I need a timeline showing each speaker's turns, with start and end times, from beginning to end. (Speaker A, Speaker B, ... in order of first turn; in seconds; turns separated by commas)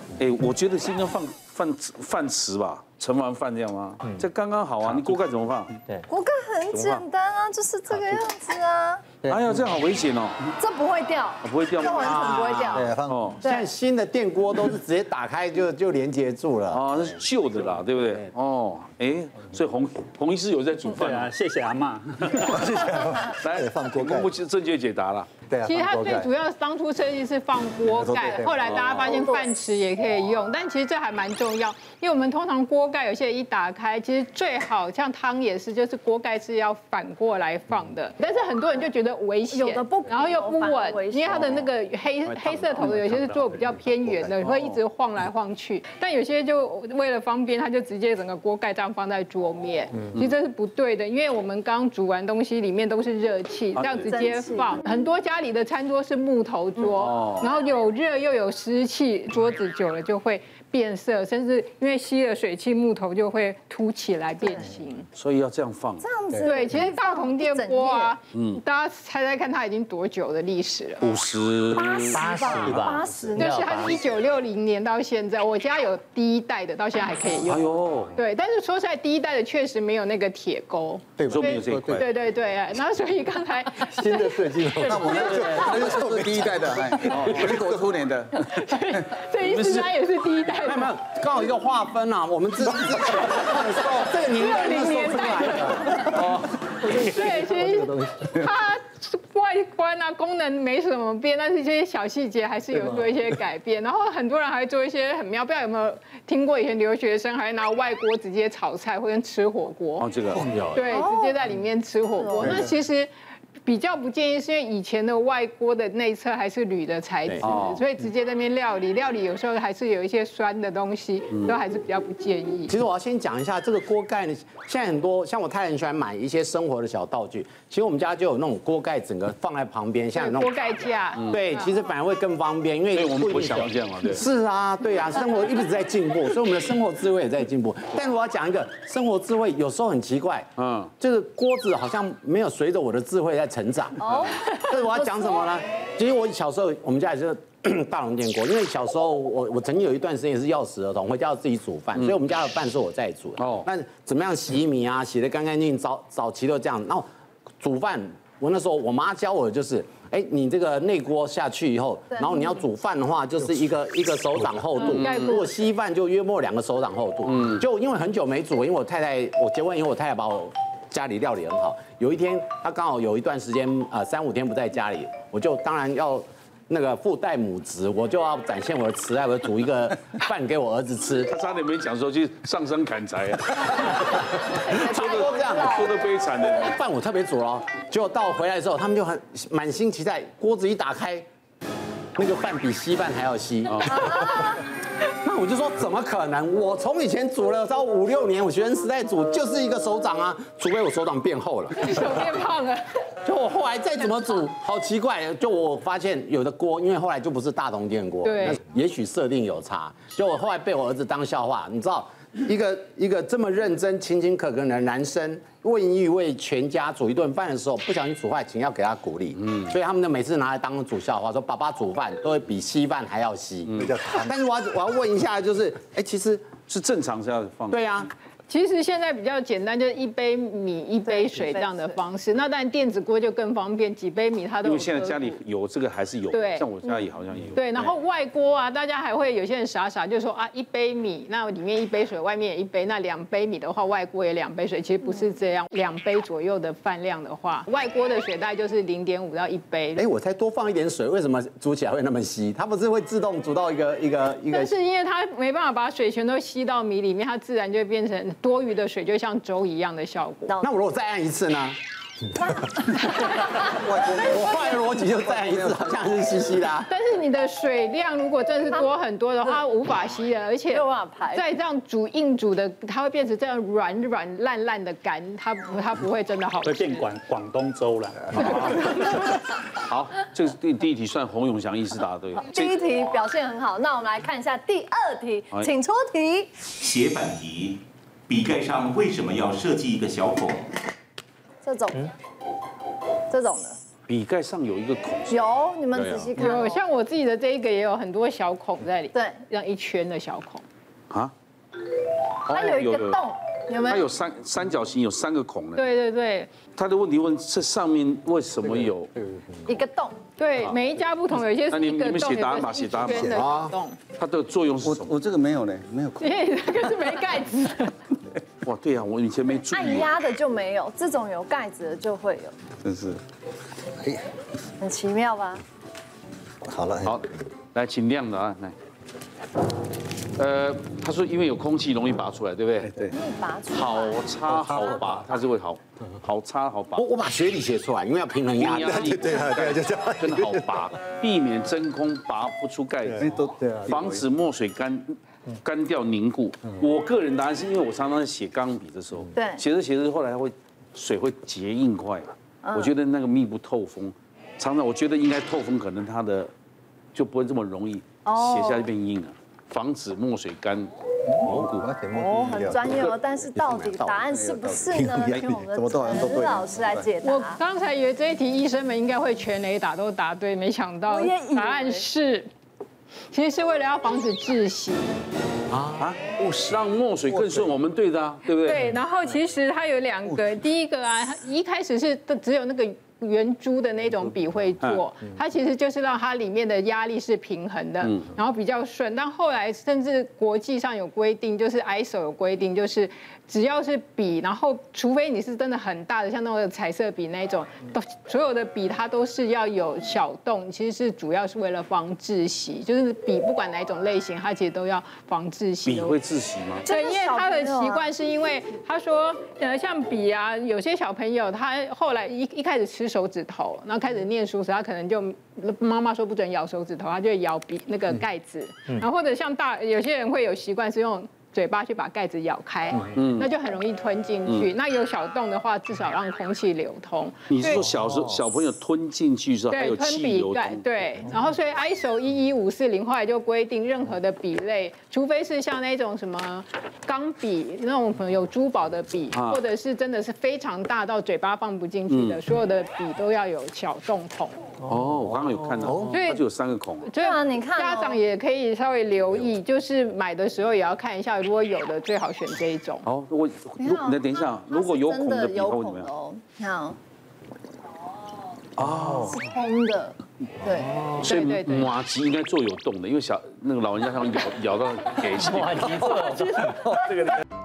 Speaker A: 0.2-5.8, Speaker B: 6.1-9.1, Speaker A: 6.7-7.0, Speaker A: 9.2-10.5, Speaker B: 10.6-13.7, Speaker A: 11.4-12.4, Speaker C: 11.9-12.9, Speaker D: 12.7-13.1, Speaker A: 12.9-13.4, Speaker C: 13.4-17.0, Speaker A: 16.7-21.3, Speaker E: 20.9-22.7, Speaker A: 22.3-25.3, Speaker D: 22.7-24.3, Speaker D: 25.5-26.2, Speaker F: 25.6-65.0, Speaker D: 28.0-28.5, Speaker A: 28.6-29.1, Speaker B: 29.0-29.6, Speaker B: 39.5-41.7, Speaker E: 42.3-44.0, Speaker A: 44.4-44.8, Speaker A: 53.7-54.1, Speaker B: 54.0-54.9, Speaker A: 57.0-57.5, Speaker B: 64.4-64.7, Speaker A: 65.1-66.0, Speaker B: 66.0-68.1, Speaker F: 66.4-71.2, Speaker A: 68.3-68.6, Speaker A: 71.0-72.8, Speaker B: 71.7-73.6, Speaker G: 72.1-73.0, Speaker H: 72.5-74.0, Speaker D: 73.0-73.3, Speaker F: 73.3-86.0, Speaker A: 77.4-78.2, Speaker D: 81.2-81.8, Speaker A: 81.3-82.1, Speaker D: 84.0-84.9, Speaker I: 84.8-88.5, Speaker A: 87.0-87.8, Speaker F: 88.5-90.9, Speaker A: 89.4-89.9, Speaker C: 90.6-96.0, Speaker F: 94.3-96.2, Speaker A: 96.1-97.1, Speaker F: 96.9-110.1, Speaker D: 97.2-98.1, Speaker A: 110.0-110.5, Speaker F: 110.7-113.1, Speaker B: 110.9-111.4, Speaker B: 112.2-112.6, Speaker F: 113.7-122.8, Speaker A: 117.4-117.8, Speaker C: 122.7-130.5, Speaker F: 130.2-131.7, Speaker C: 131.3-140.5, Speaker A: 132.9-134.2, Speaker A: 140.6-140.9, Speaker C: 141.0-157.1, Speaker B: 144.0-145.5, Speaker A: 153.4-153.7, Speaker C: 157.6-181.3, Speaker B: 162.1-162.5, Speaker A: 164.8-165.1, Speaker F: 164.9-165.5, Speaker A: 167.2-167.6, Speaker A: 181.3-184.2, Speaker B: 184.3-185.9, Speaker C: 184.7-185.9, Speaker A: 184.9-186.8, Speaker C: 186.5-191.2, Speaker C: 192.2-194.6, Speaker A: 193.7-194.1, Speaker C: 195.2-202.2, Speaker F: 201.8-202.8, Speaker C: 203.2-226.4, Speaker F: 208.2-208.6, Speaker A: 219.4-219.7, Speaker A: 223.7-224.0, Speaker A: 226.7-227.8, Speaker C: 227.7-228.1, Speaker F: 228.5-235.4, Speaker B: 231.1-231.9, Speaker A: 234.6-237.9, Speaker F: 236.3-236.7, Speaker F: 237.5-250.0, Speaker C: 249.9-254.7, Speaker F: 254.5-260.5, Speaker C: 260.6-261.8, Speaker F: 263.3-264.7, Speaker I: 263.7-264.6, Speaker C: 263.9-266.9, Speaker I: 265.2-265.8, Speaker F: 266.9-277.1, Speaker B: 270.7-271.4, Speaker E: 276.6-278.6, Speaker F: 278.3-279.4, Speaker A: 278.4-278.9, Speaker A: 279.8-282.8, Speaker B: 282.4-286.5, Speaker G: 286.8-290.7, Speaker B: 291.6-292.1, Speaker B: 293.3-293.8, Speaker A: 294.1-295.4, Speaker B: 295.3-296.8, Speaker C: 295.9-296.4, Speaker F: 296.4-300.6, Speaker B: 299.1-299.4, Speaker A: 302.5-303.2, Speaker B: 302.5-304.1, Speaker A: 303.9-305.9, Speaker F: 305.7-306.5, Speaker A: 306.8-309.1, Speaker B: 309.6-310.2, Speaker F: 310.4-314.0, Speaker A: 311.7-313.4, Speaker C: 313.2-313.7, Speaker A: 314.2-315.1, Speaker I: 314.8-316.3, Speaker F: 316.2-317.9, Speaker A: 318.6-320.2, Speaker B: 319.7-322.5, Speaker I: 322.8-323.2, Speaker B: 324.8-325.6, Speaker D: 326.7-327.1, Speaker A: 327.0-328.7, Speaker A: 330.4-333.0, Speaker I: 332.8-333.1, Speaker B: 333.1-334.2, Speaker A: 333.7-337.0, Speaker C: 336.9-339.8, Speaker A: 338.5-356.5, Speaker I: 339.4-340.1, Speaker I: 343.1-344.2, Speaker B: 349.3-349.6, Speaker B: 352.6-352.9, Speaker A: 357.1-361.9, Speaker B: 358.2-358.9, Speaker D: 361.4-367.1, Speaker B: 362.1-367.6, Speaker F: 367.2-372.4, Speaker B: 371.1-372.1, Speaker F: 373.3-375.1, Speaker C: 375.7-376.0, Speaker A: 376.0-378.9, Speaker F: 378.5-406.2, Speaker A: 405.8-406.8, Speaker B: 406.8-408.1, Speaker F: 406.8-427.9, Speaker A: 423.1-423.5, Speaker A: 427.5-431.0, Speaker F: 429.7-444.6, Speaker A: 439.3-439.6, Speaker A: 442.1-442.4, Speaker A: 444.8-447.1, Speaker F: 445.9-446.4, Speaker F: 447.1-453.1, Speaker B: 447.2-448.2, Speaker A: 453.0-456.1, Speaker B: 453.8-457.0, Speaker A: 458.8-459.4, Speaker B: 459.2-460.9, Speaker A: 461.2-466.2, Speaker F: 461.2-461.9, Speaker H: 465.5-467.3, Speaker B: 466.2-467.1